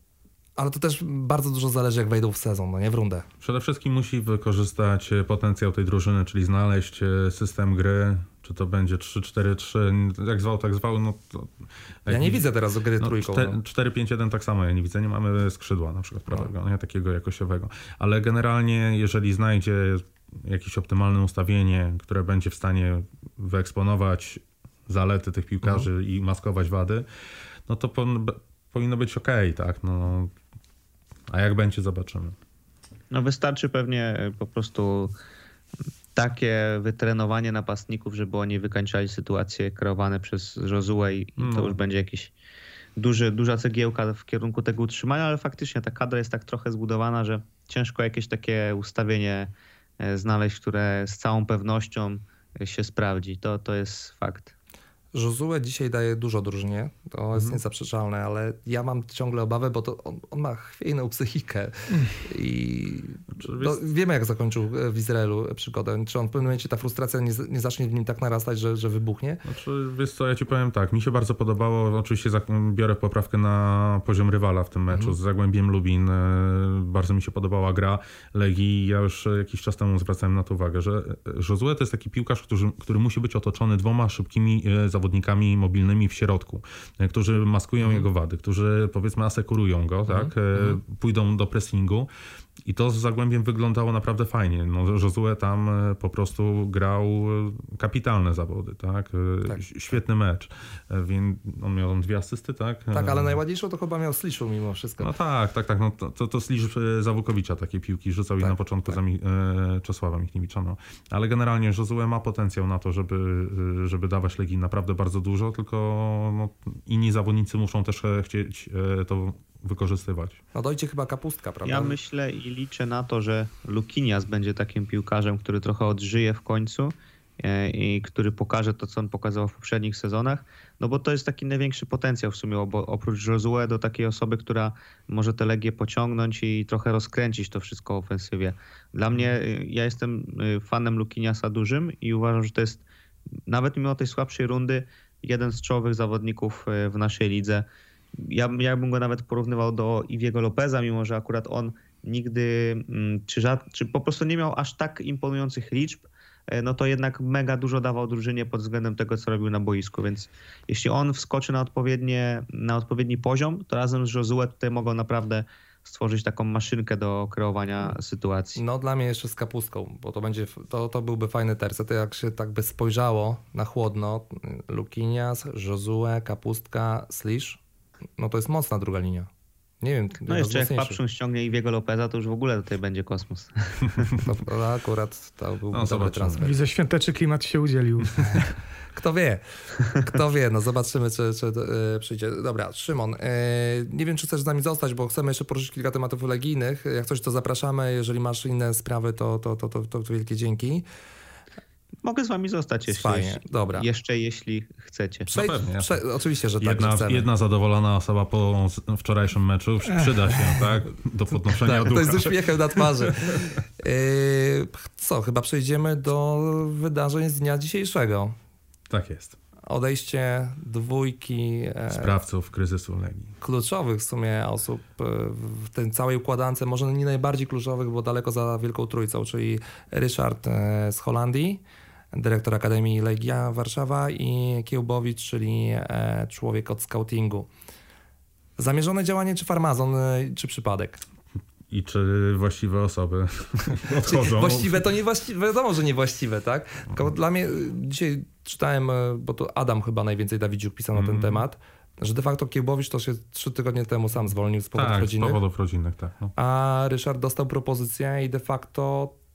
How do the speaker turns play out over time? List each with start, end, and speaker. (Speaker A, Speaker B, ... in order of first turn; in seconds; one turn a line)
Speaker A: 0.6-3.3
Speaker B: 3.4-12.4
Speaker A: 12.1-13.6
Speaker B: 13.0-27.1
Speaker B: 27.7-30.3
Speaker B: 31.3-32.4
Speaker C: 33.1-35.1
Speaker C: 36.1-42.3
Speaker B: 41.4-41.8
Speaker C: 43.0-54.5
Speaker A: 55.1-69.4
Speaker D: 61.9-62.1
Speaker B: 63.3-63.8
Speaker B: 69.5-92.1
Speaker A: 74.9-75.2
Speaker A: 90.0-90.8
Speaker B: 92.6-103.3
Speaker A: 102.9-105.1
Speaker B: 105.0-120.4
Speaker A: 108.4-109.0
Speaker A: 120.5-122.0
Speaker C: 121.7-142.8
Speaker C: 143.5-147.7
Speaker C: 148.2-168.6
Speaker A: 168.6-177.6
Speaker A: 178.2-179.3
Speaker A: 179.8-181.0
Speaker C: 180.3-184.1
Speaker A: 184.2-186.5
Speaker B: 185.7-186.6
Speaker D: 186.4-188.5
Speaker A: 188.9-189.4
Speaker A: 189.9-200.8
Speaker C: 202.0-205.3
Speaker A: 202.9-203.9
Speaker B: 205.3-206.0
Speaker A: 205.3-207.3
Speaker B: 206.6-213.5
Speaker A: 211.5-218.3
Speaker B: 218.9-219.4
Speaker A: 219.7-222.1
Speaker B: 221.9-223.3
Speaker A: 223.4-231.6
Speaker A: 232.1-237.5
Speaker A: 238.6-241.0
Speaker B: 241.7-244.8
Speaker A: 243.9-255.4
Speaker B: 250.9-251.4
Speaker B: 254.7-256.3
Speaker A: 256.4-259.2